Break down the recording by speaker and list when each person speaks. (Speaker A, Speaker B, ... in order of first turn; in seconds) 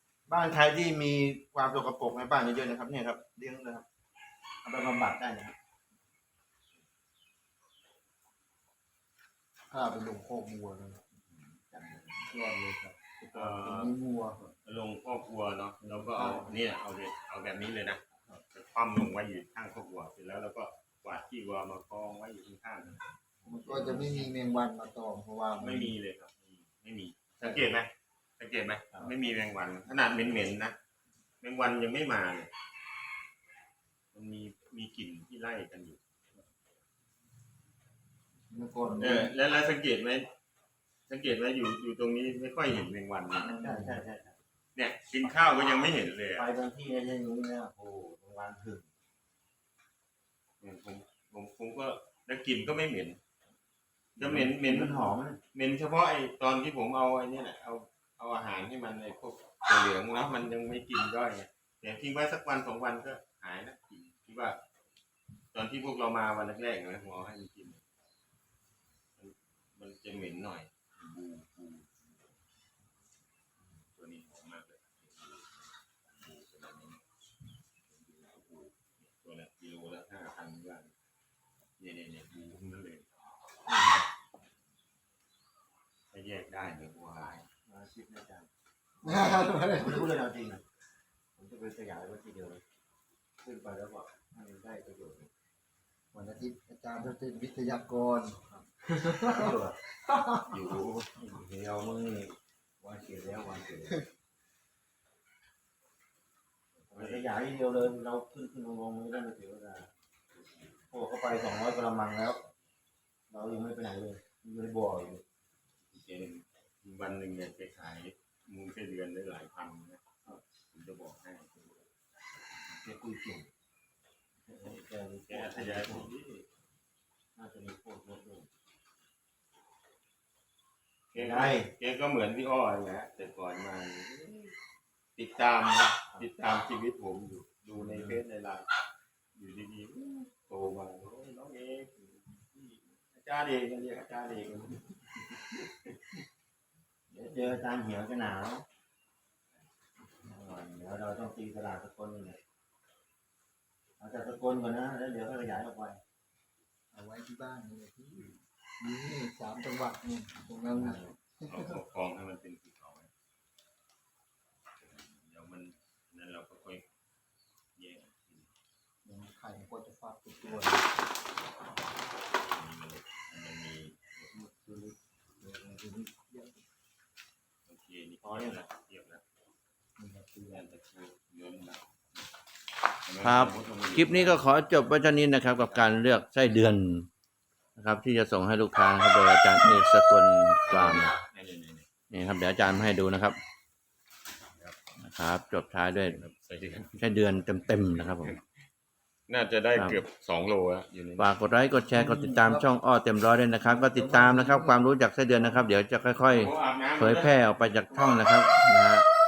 Speaker A: 0.3-3.8, 4.6-5.6, 11.7-12.3, 43.4-44.4, 46.4-48.9, 54.2-55.4, 83.7-84.0, 87.7-88.5, 89.8-90.6, 91.4-92.6, 93.4-95.3, 99.2-99.8, 101.0-104.0, 106.9-109.9, 110.9-112.4, 113.3-115.2, 122.8-123.5, 124.5-126.1, 127.4-128.5, 131.1-131.7, 136.1-136.5, 147.1-148.7, 150.2-152.4, 154.0-156.0, 160.7-161.2, 178.2-178.6
Speaker B: 9.7-11.1, 12.3-14.4, 16.1-16.5, 23.5-25.9, 38.5-39.3, 43.7-44.0, 89.0-90.0, 96.1-99.5, 156.9-158.3, 158.8-161.8, 169.1-170.9, 175.4-176.6, 180.0-180.6, 202.0-202.6, 203.7-204.7
Speaker C: 11.3-12.2, 13.3-24.4, 25.5-30.8, 31.4-32.5, 34.1-36.0, 39.0-40.3, 41.1-43.7, 44.8-46.5, 50.6-53.2, 54.2-64.6, 65.5-67.8, 69.2-72.3, 73.7-77.0, 77.9-80.9, 81.8-83.2, 86.1-87.5, 100.5-101.1, 106.8-107.3, 110.4-110.8, 115.9-120.1, 120.7-121.9, 124.5-126.5, 131.1-134.6, 135.2-138.7, 139.3-146.0, 161.4-163.1, 164.8-166.8, 167.8-168.5, 170.4-171.0, 172.5-174.7, 177.7-179.2, 180.5-182.3, 183.1-184.5, 185.6-185.9, 190.7-191.9, 196.1-197.0, 197.7-198.4, 199.3-201.3, 206.2-208.3
Speaker D: 183.2-187.1, 187.8-191.1, 192.1-193.4, 195.0-196.2, 197.0-198.3, 199.8-200.0, 201.2-209.1